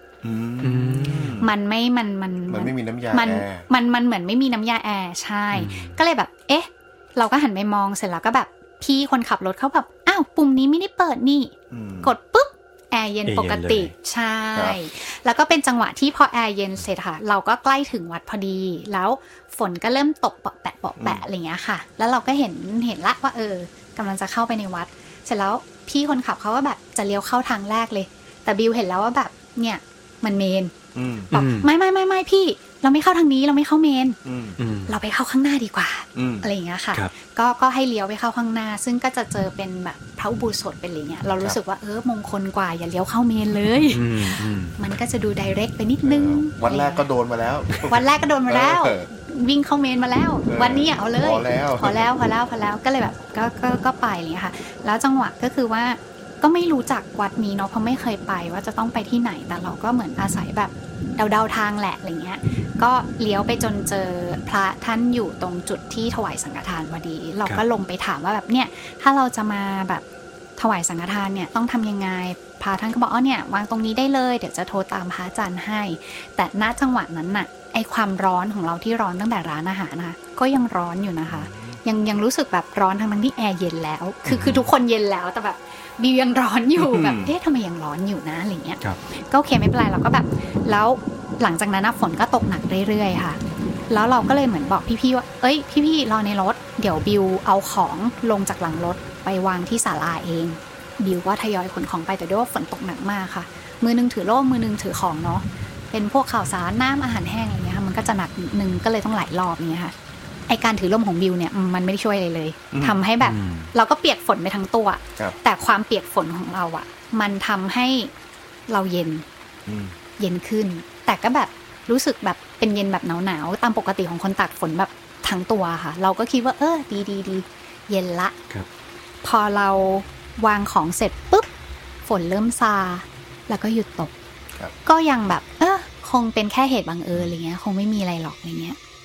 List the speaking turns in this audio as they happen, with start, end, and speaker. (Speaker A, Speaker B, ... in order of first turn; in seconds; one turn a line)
Speaker A: 0.2-1.5
Speaker B: 0.6-1.4
Speaker C: 1.4-30.7
Speaker A: 2.5-3.6
Speaker B: 5.5-6.0
Speaker A: 11.7-12.1
Speaker B: 13.3-13.9
Speaker A: 30.9-31.3
Speaker B: 31.3-31.7
Speaker C: 31.3-34.2
Speaker A: 34.2-34.6
Speaker B: 34.6-35.0
Speaker C: 34.9-47.0
Speaker A: 36.1-36.5
Speaker B: 43.9-44.8
Speaker A: 46.0-49.1
Speaker C: 47.8-70.0
Speaker A: 50.5-52.1
Speaker C: 70.6-109.9
Speaker A: 81.4-81.8
Speaker B: 84.3-84.6
Speaker A: 86.8-87.3
Speaker C: 110.5-118.1
Speaker A: 112.7-113.0
Speaker B: 113.2-113.7
Speaker C: 118.7-119.2
Speaker A: 119.7-120.0
Speaker C: 120.2-128.3
Speaker C: 129.2-131.5
Speaker C: 132.1-134.1
Speaker C: 134.8-138.8